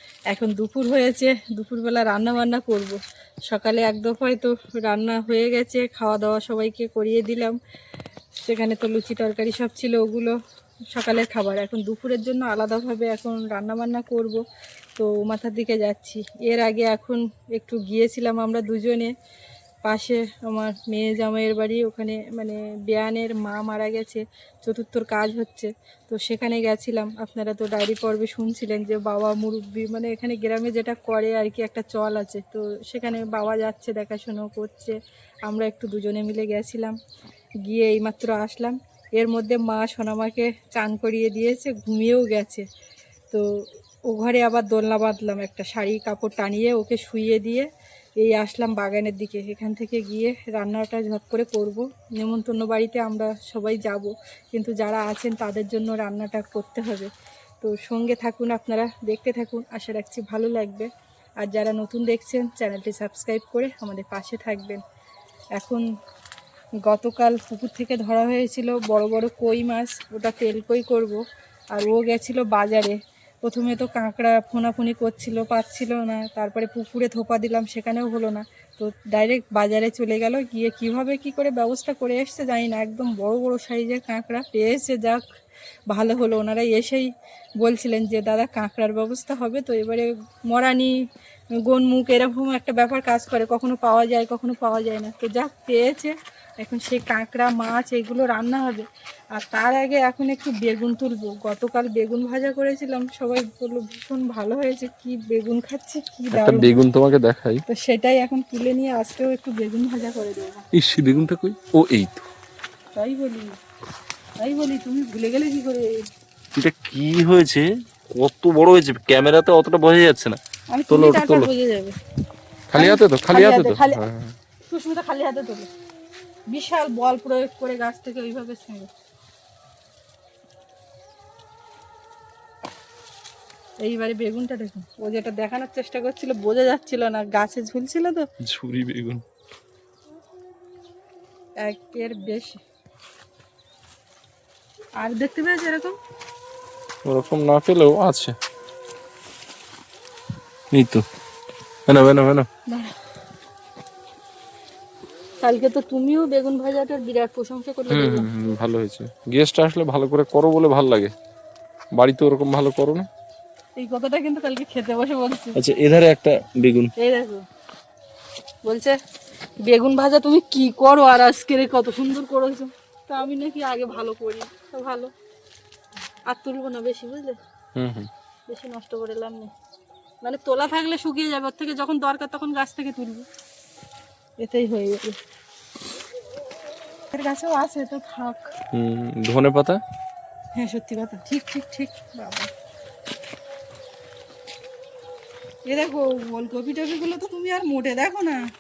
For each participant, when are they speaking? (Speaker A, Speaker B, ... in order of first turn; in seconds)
Speaker A: 0.3-7.6, 8.4-10.4, 10.9-14.4, 15.0-19.1, 19.9-37.0, 37.6-42.6, 44.1-47.7, 48.2-57.1, 57.6-60.9, 61.4-64.8, 65.6-65.8, 66.8-71.2, 71.7-85.2, 85.9-91.0, 91.6-106.7, 107.7-110.6, 113.0-113.5, 114.4-116.1, 120.7-122.0, 122.8-124.0, 124.7-125.7, 126.5-128.9, 133.8-138.3, 141.6-142.6, 145.0-145.9, 152.7-152.9, 155.4-158.3, 163.8-165.6, 167.0-167.4, 168.7-169.0, 169.6-175.1, 176.3-177.4, 178.5-179.5, 180.2-183.3, 184.4-185.2, 187.1-188.5, 190.6-192.5, 195.7-198.4
Speaker B: 106.3-107.6, 110.7-112.3, 116.5-120.4, 120.9-121.5, 122.7-124.3, 138.4-139.2, 147.1-148.3, 150.7-151.0, 151.9-152.5, 157.9-161.1, 162.0-163.1, 165.6-166.9, 177.8-178.1, 188.7-189.8